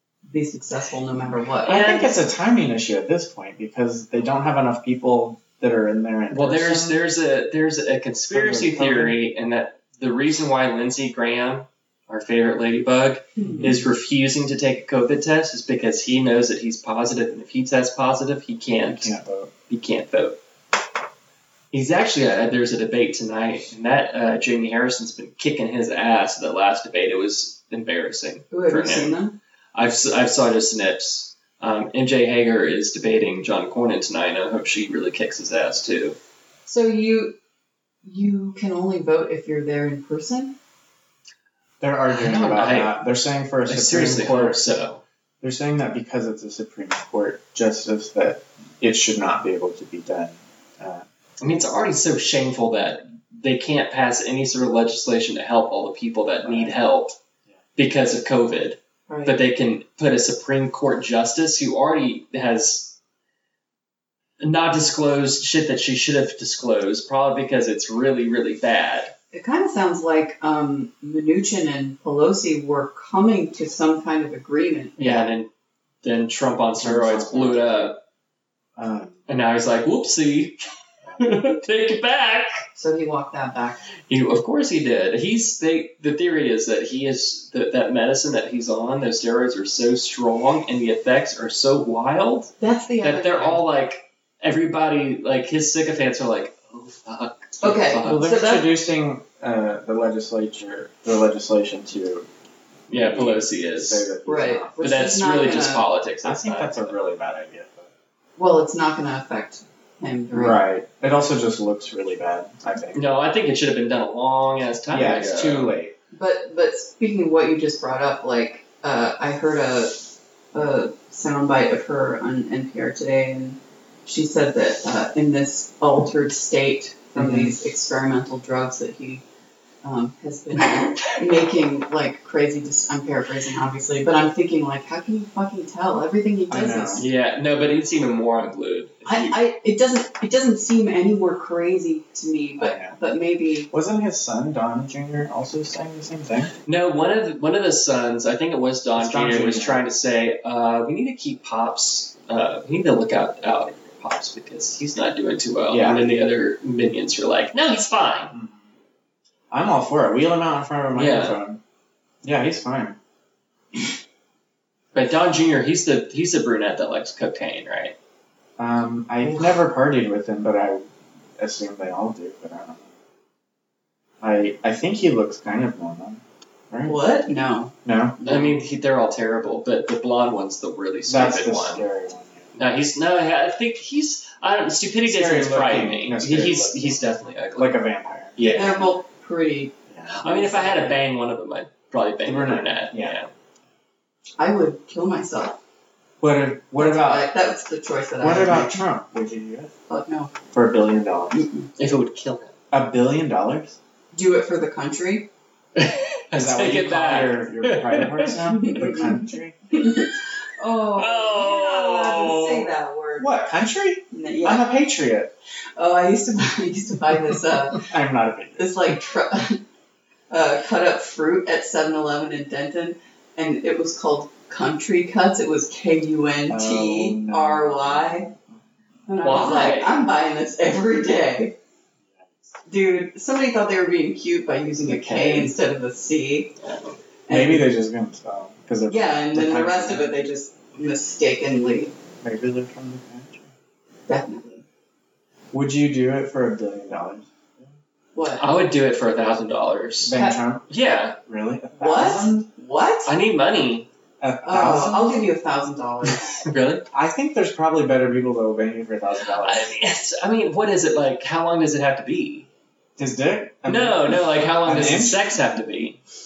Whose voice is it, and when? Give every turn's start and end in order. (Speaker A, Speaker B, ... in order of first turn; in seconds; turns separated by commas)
Speaker A: 0.3-1.9, Speaker B: 1.6-2.1, Speaker C: 1.7-7.0, Speaker B: 6.3-19.1, Speaker C: 8.3-9.2, Speaker C: 13.5-13.8, Speaker C: 18.9-19.5, Speaker B: 19.7-20.4, Speaker B: 21.7-29.2, Speaker A: 28.5-29.4, Speaker B: 29.7-36.2, Speaker A: 36.7-37.4, Speaker A: 38.0-40.6, Speaker C: 41.8-44.7, Speaker B: 42.1-43.0, Speaker B: 43.7-45.0, Speaker C: 45.4-51.0, Speaker B: 51.4-57.2, Speaker C: 56.4-56.8, Speaker B: 57.8-63.0, Speaker A: 59.1-59.4, Speaker B: 64.4-69.1, Speaker A: 69.3-75.3, Speaker B: 75.0-75.5, Speaker B: 76.0-78.0, Speaker C: 76.8-77.9, Speaker C: 78.8-79.2, Speaker B: 79.3-80.6, Speaker C: 81.0-81.4, Speaker B: 81.2-82.6, Speaker A: 82.8-83.8, Speaker B: 84.1-98.4, Speaker A: 92.6-93.6, Speaker A: 97.6-98.7, Speaker C: 98.0-102.3, Speaker B: 102.9-104.1, Speaker C: 102.9-104.9, Speaker A: 104.3-105.8, Speaker B: 104.8-107.0, Speaker C: 106.2-107.9, Speaker A: 108.4-110.6, Speaker C: 110.3-113.0, Speaker B: 112.9-115.8, Speaker C: 114.9-115.9, Speaker A: 116.1-120.0, Speaker A: 120.5-129.2, Speaker C: 127.2-127.5, Speaker A: 129.8-137.1, Speaker C: 136.5-137.1, Speaker B: 137.0-139.4, Speaker A: 139.1-143.7, Speaker C: 142.6-143.0, Speaker C: 143.7-146.5, Speaker B: 146.7-158.3, Speaker C: 149.0-149.8, Speaker C: 155.7-156.1, Speaker C: 158.3-158.6, Speaker C: 159.5-161.6, Speaker B: 160.9-161.4, Speaker C: 162.2-163.0, Speaker B: 164.9-167.9, Speaker C: 168.6-172.9, Speaker C: 174.2-177.0, Speaker A: 176.9-178.6, Speaker C: 177.8-178.2, Speaker B: 178.3-181.8, Speaker C: 181.1-182.5, Speaker B: 182.6-187.8, Speaker C: 185.1-188.6, Speaker B: 188.4-188.9, Speaker A: 188.5-191.0, Speaker C: 189.9-190.2, Speaker B: 190.1-193.3, Speaker C: 192.2-193.2, Speaker A: 194.4-195.6, Speaker C: 196.2-197.3, Speaker A: 196.8-198.8, Speaker C: 198.2-199.7, Speaker A: 199.9-200.3, Speaker C: 200.5-201.4, Speaker A: 201.3-201.7, Speaker B: 201.8-202.6, Speaker C: 202.7-203.8, Speaker A: 204.1-205.3, Speaker B: 205.8-208.3, Speaker C: 206.3-209.6, Speaker A: 208.5-213.4, Speaker B: 211.0-212.7, Speaker C: 213.2-215.3, Speaker A: 214.1-214.7, Speaker A: 215.8-217.9, Speaker C: 217.8-218.8, Speaker A: 218.6-219.6, Speaker A: 220.3-228.3, Speaker C: 226.5-228.6, Speaker A: 229.1-231.5, Speaker B: 229.2-229.9, Speaker C: 232.1-232.5, Speaker A: 232.7-236.5, Speaker C: 234.9-235.5, Speaker B: 236.6-237.0, Speaker A: 237.3-237.7, Speaker C: 237.3-240.2, Speaker A: 238.9-241.9, Speaker C: 242.2-243.5, Speaker A: 244.1-244.6, Speaker C: 245.5-247.7, Speaker A: 248.2-248.5, Speaker B: 248.4-251.2, Speaker C: 250.0-250.7, Speaker C: 251.3-252.5, Speaker A: 251.8-253.1, Speaker B: 253.1-253.9, Speaker C: 254.2-255.2, Speaker A: 254.4-256.4, Speaker B: 256.4-256.8, Speaker C: 256.9-259.7, Speaker B: 259.4-262.5, Speaker C: 263.0-265.4, Speaker B: 263.7-266.0